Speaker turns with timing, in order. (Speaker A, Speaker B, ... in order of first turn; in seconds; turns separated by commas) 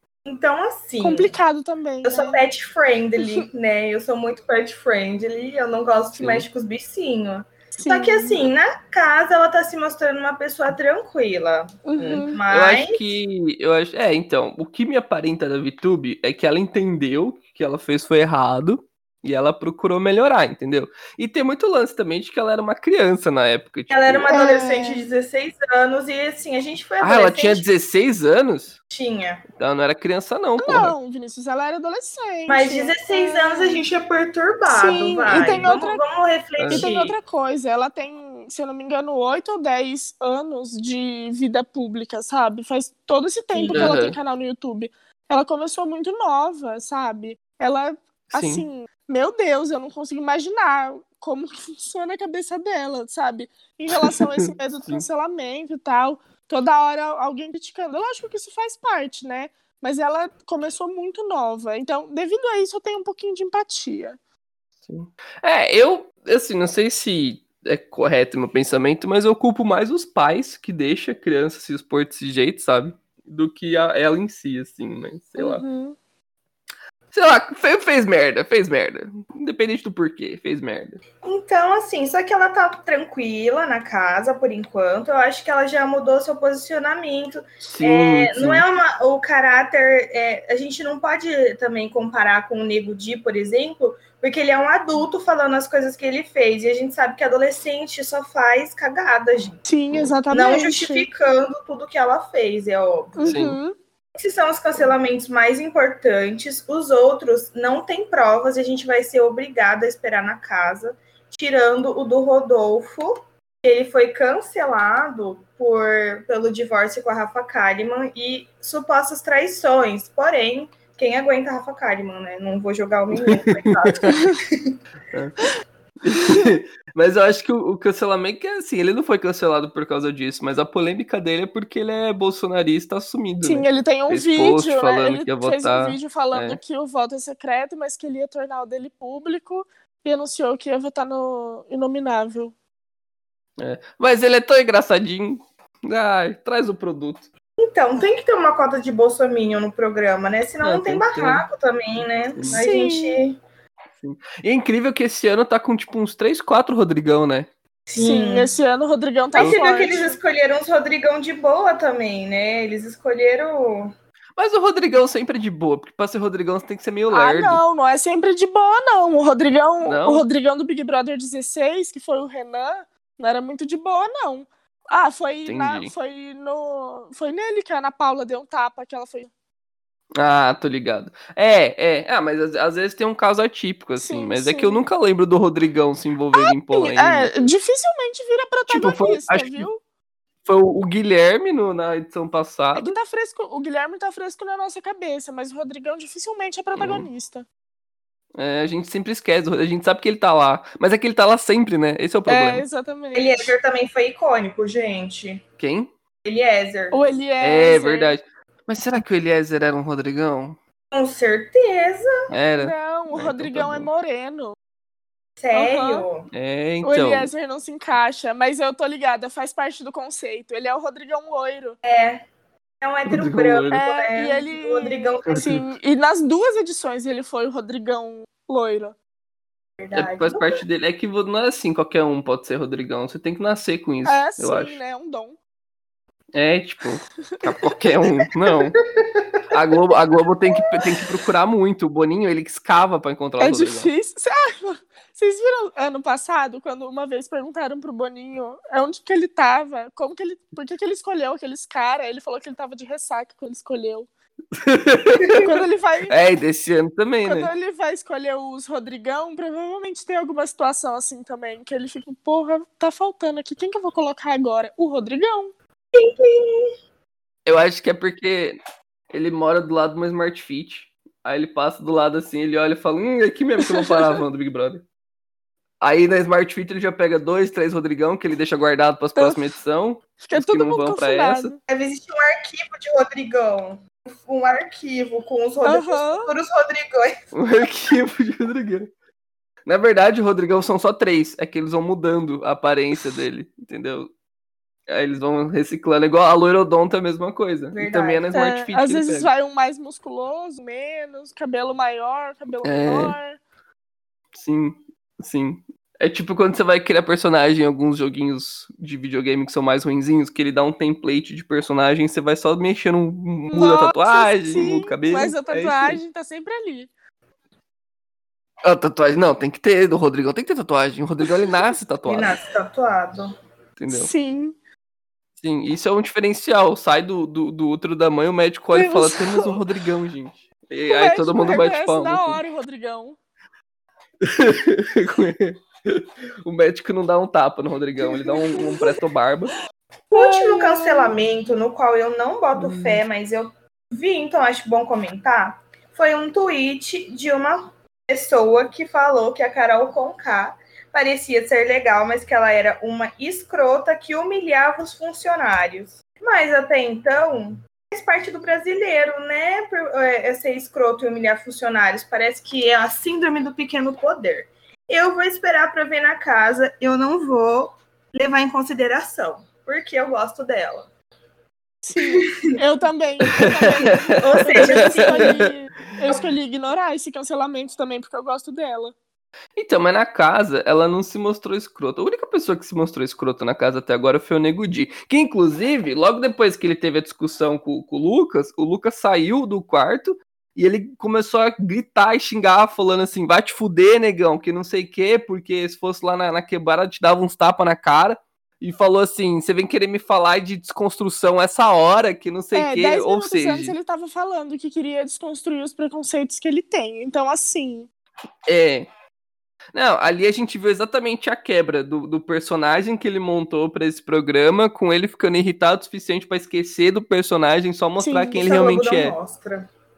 Speaker A: 0.3-1.3, Speaker B: 1.0-2.4, Speaker A: 2.0-13.0, Speaker C: 6.2-6.5, Speaker B: 7.8-8.4, Speaker B: 11.8-12.4, Speaker C: 12.0-24.3, Speaker A: 23.9-27.6, Speaker B: 24.3-25.1, Speaker C: 27.0-28.8, Speaker A: 28.9-29.4, Speaker C: 29.6-30.9, Speaker B: 30.6-33.8, Speaker A: 32.5-37.2, Speaker B: 34.7-36.0, Speaker C: 35.3-35.7, Speaker C: 36.6-36.9, Speaker B: 36.7-64.2, Speaker C: 43.7-44.2, Speaker C: 48.3-48.6, Speaker C: 54.0-55.1, Speaker C: 64.9-75.6, Speaker B: 75.4-76.0, Speaker C: 77.1-81.0, Speaker A: 81.2-99.6, Speaker C: 87.6-88.6, Speaker B: 99.7-101.1, Speaker A: 100.3-103.4, Speaker B: 103.2-103.8, Speaker C: 103.2-103.6, Speaker A: 104.2-124.7, Speaker C: 123.2-124.1, Speaker C: 125.1-125.4, Speaker C: 126.0-136.6, Speaker B: 133.4-142.5, Speaker C: 143.6-147.3, Speaker A: 147.6-153.4, Speaker C: 150.6-151.5, Speaker C: 152.3-152.6, Speaker B: 152.5-153.2, Speaker C: 154.0-157.5, Speaker A: 157.9-158.5, Speaker B: 158.0-160.2, Speaker A: 159.3-163.9, Speaker C: 164.4-167.6, Speaker B: 167.1-179.3, Speaker C: 169.8-170.3, Speaker C: 175.5-175.9, Speaker C: 180.2-187.4, Speaker B: 184.0-184.8, Speaker B: 186.3-189.8, Speaker C: 188.7-189.7, Speaker C: 190.5-192.9, Speaker B: 192.8-197.4, Speaker C: 196.8-197.1, Speaker C: 198.4-202.7, Speaker B: 202.3-203.5, Speaker A: 203.1-205.4, Speaker C: 205.6-205.9, Speaker A: 206.2-207.0, Speaker B: 206.9-208.2, Speaker C: 207.4-210.6, Speaker A: 210.9-212.1, Speaker C: 212.3-213.9, Speaker B: 212.6-214.6, Speaker A: 215.4-216.3, Speaker B: 215.5-216.1, Speaker C: 216.3-217.3, Speaker B: 216.8-221.8, Speaker A: 221.8-222.2, Speaker A: 222.8-225.5, Speaker C: 223.1-223.8, Speaker B: 223.7-228.9, Speaker C: 225.3-225.6, Speaker A: 229.8-230.6, Speaker C: 229.9-234.8, Speaker B: 234.1-235.4, Speaker C: 236.3-238.8, Speaker A: 239.0-239.2, Speaker C: 239.5-243.9, Speaker B: 243.4-254.1, Speaker C: 254.6-255.5, Speaker B: 255.4-256.2, Speaker C: 256.1-257.5, Speaker B: 257.2-265.5, Speaker A: 265.9-266.7, Speaker C: 267.5-268.6, Speaker C: 269.1-274.9, Speaker B: 273.7-274.0, Speaker C: 275.8-281.5, Speaker B: 279.1-279.5, Speaker B: 280.2-281.6, Speaker A: 281.7-287.1, Speaker B: 285.6-286.3, Speaker C: 287.3-288.9, Speaker C: 289.7-294.1, Speaker C: 294.9-299.3, Speaker A: 297.8-298.3, Speaker B: 298.3-303.4, Speaker C: 302.6-303.2, Speaker C: 304.3-316.0, Speaker B: 313.5-316.9, Speaker C: 318.6-322.4, Speaker A: 322.1-323.3, Speaker C: 323.8-324.1, Speaker B: 323.9-324.6, Speaker C: 325.4-332.4, Speaker B: 328.7-329.6, Speaker B: 330.9-333.2, Speaker C: 334.2-339.5, Speaker B: 338.0-338.9, Speaker A: 340.1-370.9, Speaker B: 340.1-341.2, Speaker C: 342.6-343.0, Speaker B: 371.8-378.9, Speaker A: 372.0-372.4, Speaker C: 373.4-375.5, Speaker A: 374.2-375.4, Speaker C: 379.6-403.8, Speaker B: 402.5-407.9, Speaker C: 408.5-408.9, Speaker C: 409.7-419.2, Speaker B: 418.0-418.5, Speaker A: 418.4-419.7